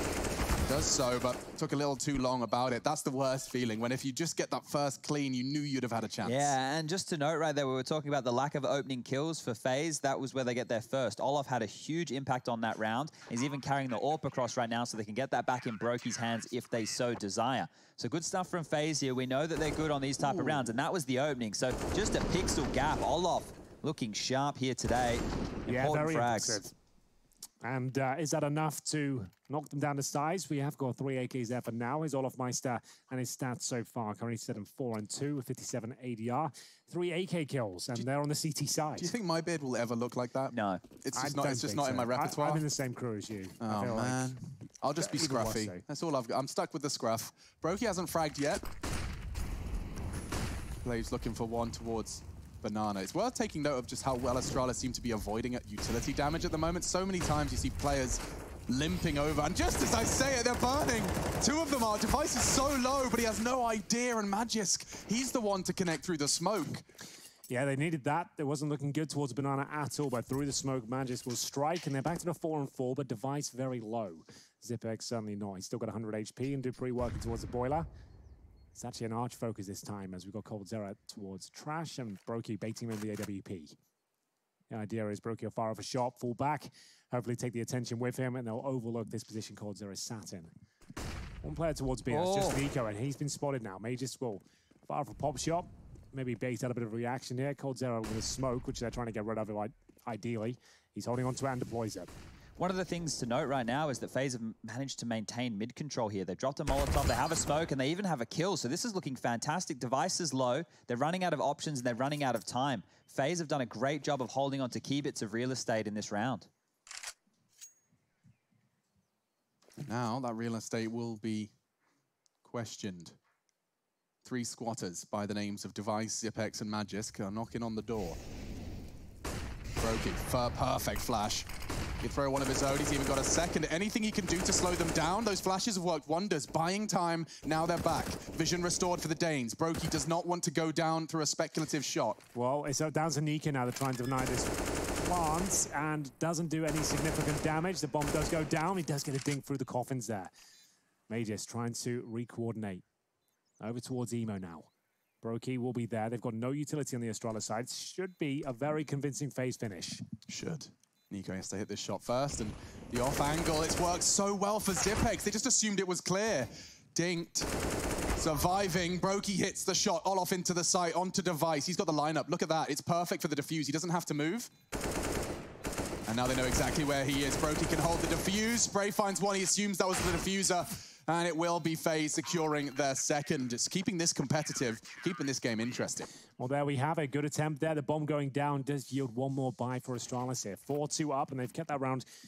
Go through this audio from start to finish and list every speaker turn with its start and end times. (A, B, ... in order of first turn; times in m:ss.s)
0:00.7-0:06.5 A
0:06.2-0:26.6 B
0:20.2-0:20.7 A
0:25.7-0:26.7 C
0:27.6-0:39.1 C
0:39.0-0:42.6 A
0:40.5-0:40.8 B
0:41.1-0:44.3 C
0:43.6-0:48.6 A
0:45.0-0:45.8 C
0:50.8-1:06.8 A
1:07.5-1:17.9 C
1:18.7-1:23.8 C
1:24.7-1:30.5 C
1:31.4-1:42.1 C
1:32.1-1:32.6 B
1:42.6-1:56.5 B
1:59.8-2:01.5 A
2:02.4-2:03.2 A
2:04.2-2:08.2 A
2:09.8-2:11.5 A
2:12.0-2:22.2 A
2:22.3-2:30.3 C
2:31.1-2:32.8 C
2:33.6-2:34.7 C
2:35.2-2:40.0 C
2:40.3-2:47.5 A
2:48.2-2:54.5 A
2:56.0-3:06.1 A
3:06.4-3:12.0 C